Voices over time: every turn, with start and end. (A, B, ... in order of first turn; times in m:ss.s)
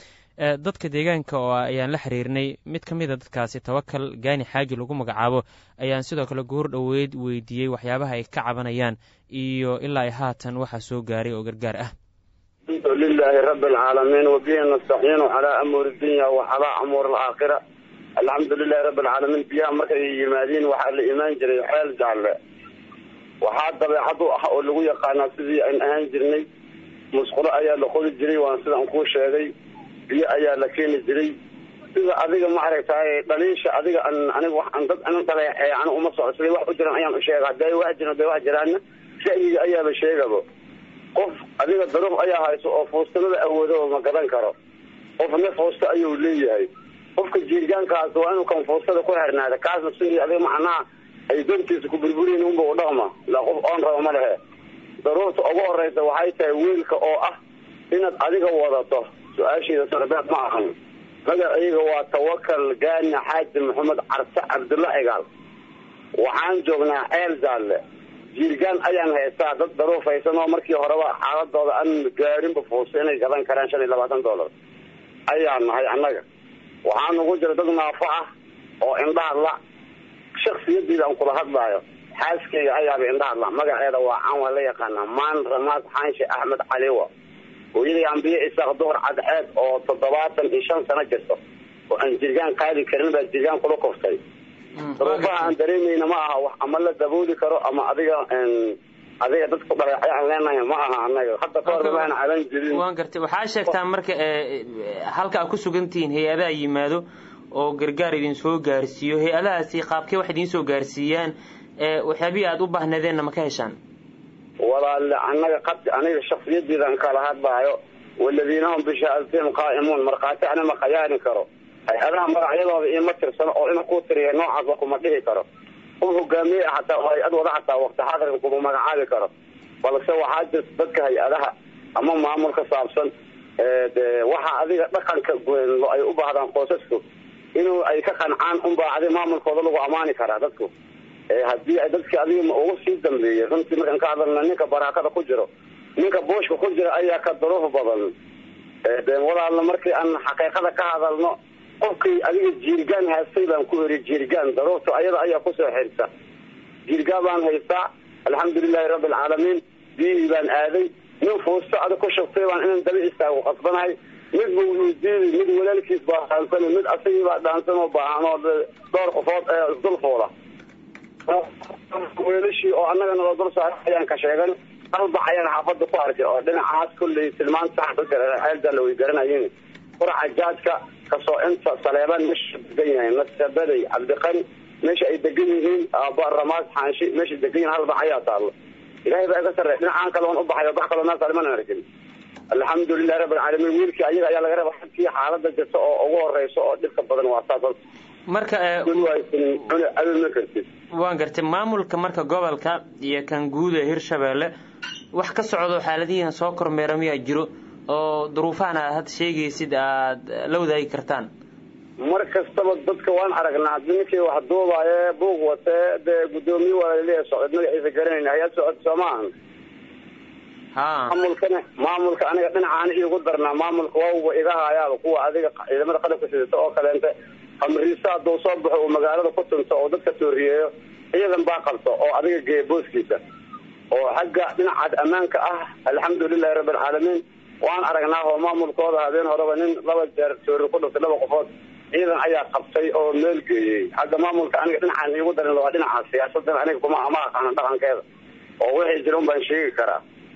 0:00.4-0:11.9 A
0:12.7-0:17.6 B
0:18.2-0:22.4 B
0:23.4-0:26.4 B
0:27.1-0:29.5 B
0:30.1-0:31.4 B
0:32.0-0:40.4 B
0:41.2-0:44.6 B
0:45.2-0:54.4 B
0:55.0-0:57.4 B
0:57.9-1:00.7 B
1:01.3-1:05.2 B
1:06.2-1:07.8 B
1:08.3-1:14.5 B
1:15.3-1:16.2 B
1:16.8-1:18.3 B
1:18.8-1:19.6 B
1:20.4-1:27.1 B
1:27.7-1:31.4 B
1:31.9-1:34.2 B
1:34.8-1:35.5 A
1:35.0-1:42.8 B
1:41.7-1:42.1 A
1:42.7-1:53.8 A
1:54.6-2:05.4 B
2:06.0-2:09.3 B
2:09.8-2:17.0 B
2:17.6-2:20.7 B
2:21.3-2:28.1 B
2:28.8-2:36.1 B
2:36.9-2:50.3 B
2:51.3-3:08.5 B
3:09.1-3:11.8 B
3:12.5-3:17.8 B
3:18.3-3:19.0 A
3:18.9-3:20.7 B
3:20.9-3:24.5 A
3:25.1-3:31.3 A
3:32.0-3:39.3 B
3:40.8-3:41.2 A
3:41.1-3:53.2 B
3:53.9-4:08.0 B
4:08.6-4:10.0 B